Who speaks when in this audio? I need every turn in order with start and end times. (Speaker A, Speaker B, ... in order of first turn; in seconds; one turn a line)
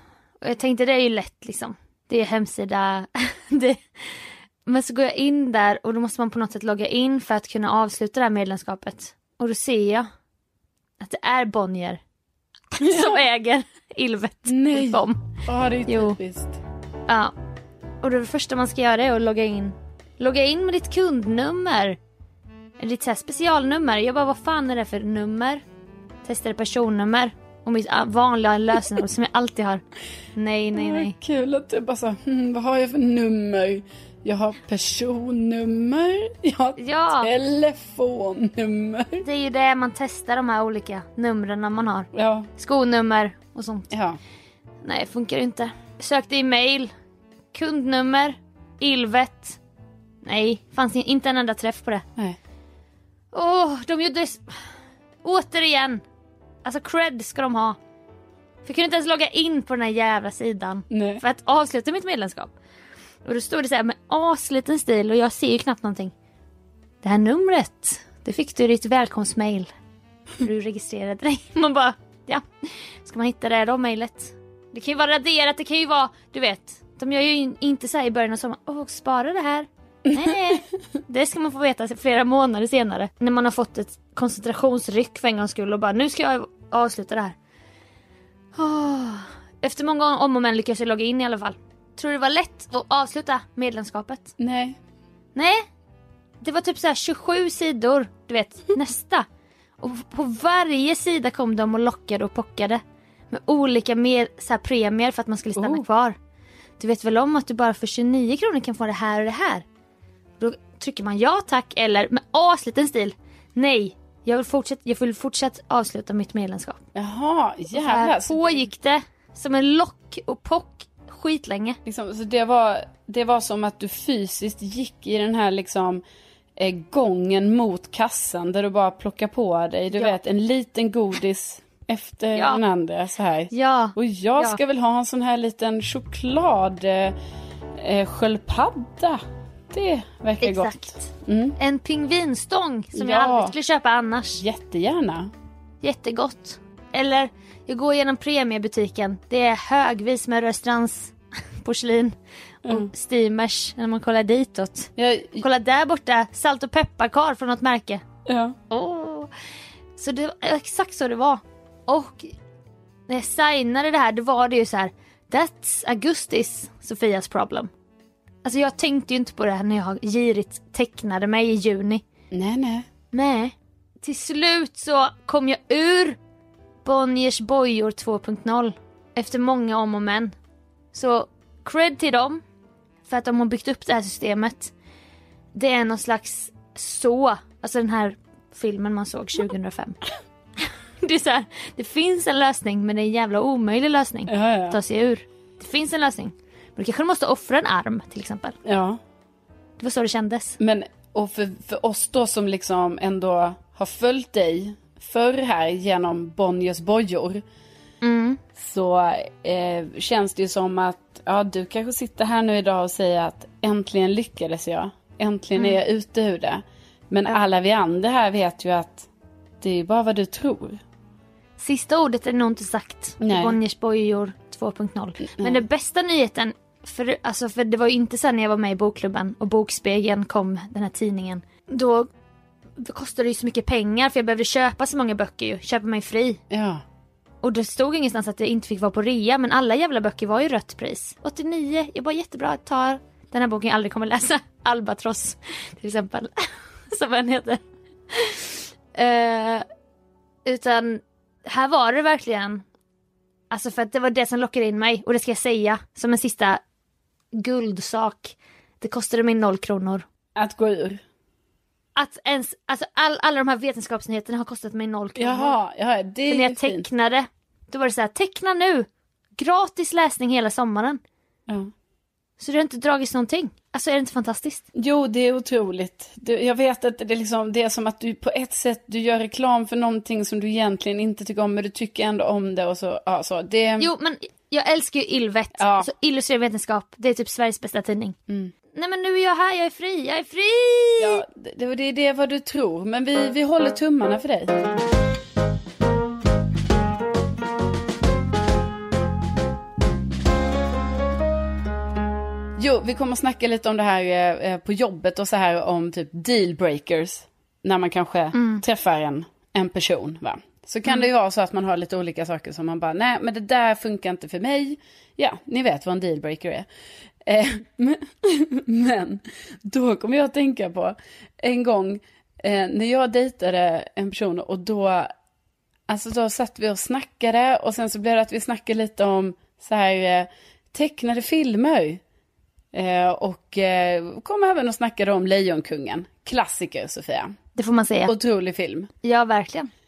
Speaker A: 0.4-10.1
Speaker A: 11.0-12.0
Speaker A: 12.7-16.2
Speaker B: 12.8-13.2
Speaker B: 14.5-16.5
Speaker A: 17.1-17.3
Speaker A: 18.0-22.0
Speaker A: 22.8-25.6
Speaker A: 26.2-29.8
Speaker A: 30.3-31.1
Speaker B: 30.7-39.2
Speaker A: 36.8-37.3
Speaker A: 39.2-43.9
Speaker B: 42.1-42.5
Speaker B: 43.9-44.2
Speaker A: 44.8-46.9
Speaker A: 47.5-49.6
Speaker A: 50.2-52.0
Speaker A: 53.3-56.0
Speaker A: 56.6-57.8
Speaker A: 58.6-62.5
Speaker B: 60.9-61.2
Speaker A: 63.2-66.1
Speaker A: 67.0-69.7
Speaker A: 70.4-87.3
Speaker A: 88.5-94.3
Speaker B: 94.4-94.8
Speaker A: 95.3-95.7
Speaker A: 96.4-99.2
Speaker A: 99.8-106.2
Speaker B: 105.6-105.8
Speaker A: 106.8-109.6
Speaker A: 110.4-116.8
Speaker B: 117.0-118.6
Speaker A: 117.7-121.8
Speaker B: 121.8-126.0
Speaker B: 126.6-137.2
Speaker A: 132.3-132.6
Speaker A: 133.5-134.6
Speaker B: 137.8-139.2
Speaker B: 139.7-141.6
Speaker A: 140.4-144.4
Speaker B: 142.9-143.5
Speaker B: 144.3-145.3
Speaker A: 145.8-152.2
Speaker A: 152.7-158.0
Speaker B: 155.0-155.4
Speaker B: 158.3-158.6
Speaker A: 158.7-159.3
Speaker A: 160.0-162.3
Speaker A: 163.1-167.7
Speaker A: 168.4-172.0
Speaker B: 172.3-172.9
Speaker A: 173.1-176.2
Speaker A: 176.8-180.3
Speaker A: 180.9-182.4
Speaker A: 183.1-184.7
Speaker A: 185.5-190.0
Speaker A: 191.0-198.6
Speaker B: 194.3-194.8
Speaker B: 198.7-199.0
Speaker A: 199.8-200.6
Speaker B: 200.6-207.4
Speaker A: 208.0-208.4
Speaker B: 208.6-219.1
Speaker B: 219.6-220.8
Speaker A: 221.6-232.1
Speaker B: 223.2-223.6
Speaker A: 232.8-236.4
Speaker B: 236.5-236.8
Speaker A: 237.4-247.6
Speaker A: 248.1-249.6
Speaker A: 250.4-252.6
Speaker A: 253.5-256.6
Speaker A: 257.3-260.0
Speaker B: 260.4-261.0
Speaker A: 261.9-265.6
Speaker B: 265.2-266.8
Speaker A: 266.3-271.0
Speaker A: 272.4-274.6
Speaker B: 274.8-283.9
Speaker A: 283.8-288.1
Speaker B: 285.6-285.9
Speaker A: 288.7-291.2
Speaker B: 291.0-294.6
Speaker B: 302.6-316.7
Speaker A: 308.3-308.6
Speaker B: 317.2-325.1
Speaker B: 325.9-332.0
Speaker B: 332.7-337.4
Speaker A: 337.6-338.1
Speaker B: 338.1-338.9
Speaker A: 339.0-339.7